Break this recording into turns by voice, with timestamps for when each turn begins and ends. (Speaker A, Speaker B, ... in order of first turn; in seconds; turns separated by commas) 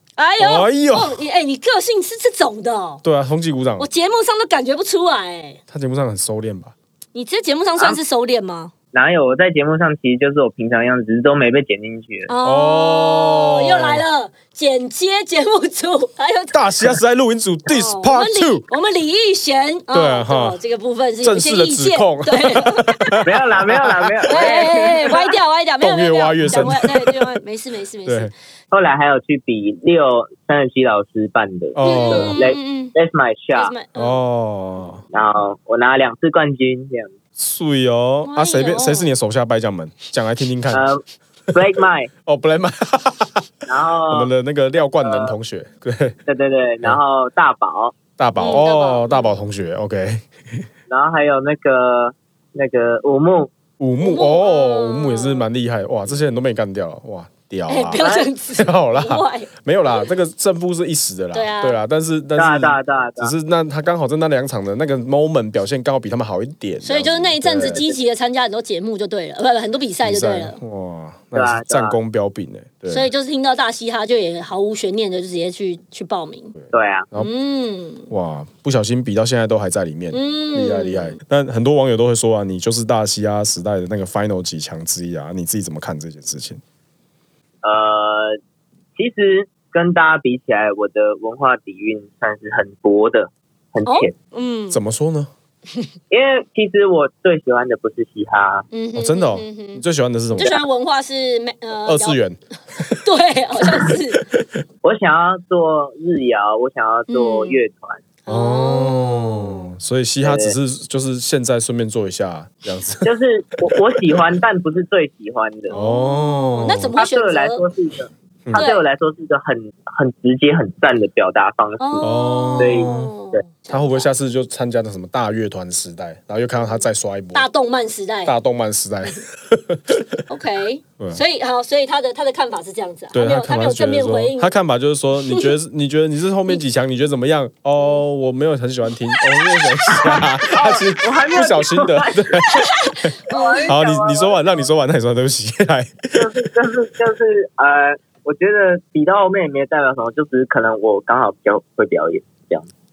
Speaker A: 0.2-3.0, Speaker B: 0.4-1.2, Speaker B: 3.0-3.9, Speaker A: 3.8-5.6, Speaker B: 5.7-6.7, Speaker A: 7.1-8.7, Speaker C: 8.9-12.3, Speaker A: 12.3-16.6, Speaker B: 12.4-14.1, Speaker B: 16.5-18.7, Speaker A: 17.7-23.2, Speaker B: 19.9-20.6, Speaker B: 21.2-24.5, Speaker C: 23.2-25.3, Speaker A: 24.2-28.3, Speaker B: 25.8-27.4, Speaker B: 28.1-28.3, Speaker C: 28.7-33.7, Speaker B: 31.8-32.4, Speaker A: 31.8-32.9, Speaker A: 33.5-34.2, Speaker B: 34.0-35.0, Speaker C: 35.1-37.1, Speaker B: 37.4-40.9, Speaker A: 38.2-39.1, Speaker C: 40.7-41.0, Speaker C: 41.5-42.1, Speaker B: 42.2-43.5, Speaker C: 43.7-44.3, Speaker B: 44.1-46.2, Speaker C: 45.0-45.4, Speaker C: 46.3-48.0, Speaker B: 48.2-50.7, Speaker A: 48.4-49.4, Speaker C: 50.9-53.5, Speaker B: 53.8-67.8, Speaker A: 54.0-55.5, Speaker A: 57.7-60.0, Speaker C: 58.0-58.3, Speaker A: 61.3-61.8, Speaker C: 62.4-63.3, Speaker A: 66.8-70.6, Speaker C: 67.6-68.0, Speaker B: 70.0-73.1, Speaker C: 71.3-72.0, Speaker A: 72.9-76.5, Speaker B: 76.6-77.3, Speaker C: 76.7-77.1, Speaker A: 77.2-78.1, Speaker B: 78.1-86.6, Speaker A: 80.1-81.2, Speaker C: 87.6-88.4, Speaker C: 89.0-94.1, Speaker A: 93.8-94.8, Speaker B: 94.7-95.3, Speaker C: 96.1-98.7, Speaker A: 98.7-102.2, Speaker B: 98.9-100.6, Speaker B: 101.8-103.0, Speaker A: 103.0-104.2, Speaker B: 104.3-104.6, Speaker C: 104.8-108.0, Speaker A: 107.1-107.6, Speaker A: 108.3-109.7, Speaker B: 108.3-113.1, Speaker C: 110.2-110.5, Speaker C: 113.0-115.8, Speaker B: 113.7-114.2, Speaker B: 115.7-117.0, Speaker A: 115.7-117.6, Speaker C: 117.0-123.4, Speaker A: 118.5-118.8, Speaker A: 121.8-124.1, Speaker B: 122.0-123.1, Speaker B: 123.7-127.5, Speaker A: 127.3-128.3, Speaker B: 128.2-130.2, Speaker A: 130.3-134.5, Speaker B: 133.1-143.2, Speaker C: 139.9-142.7, Speaker A: 142.4-143.7, Speaker C: 143.3-144.7, Speaker B: 143.7-146.3, Speaker C: 146.2-152.7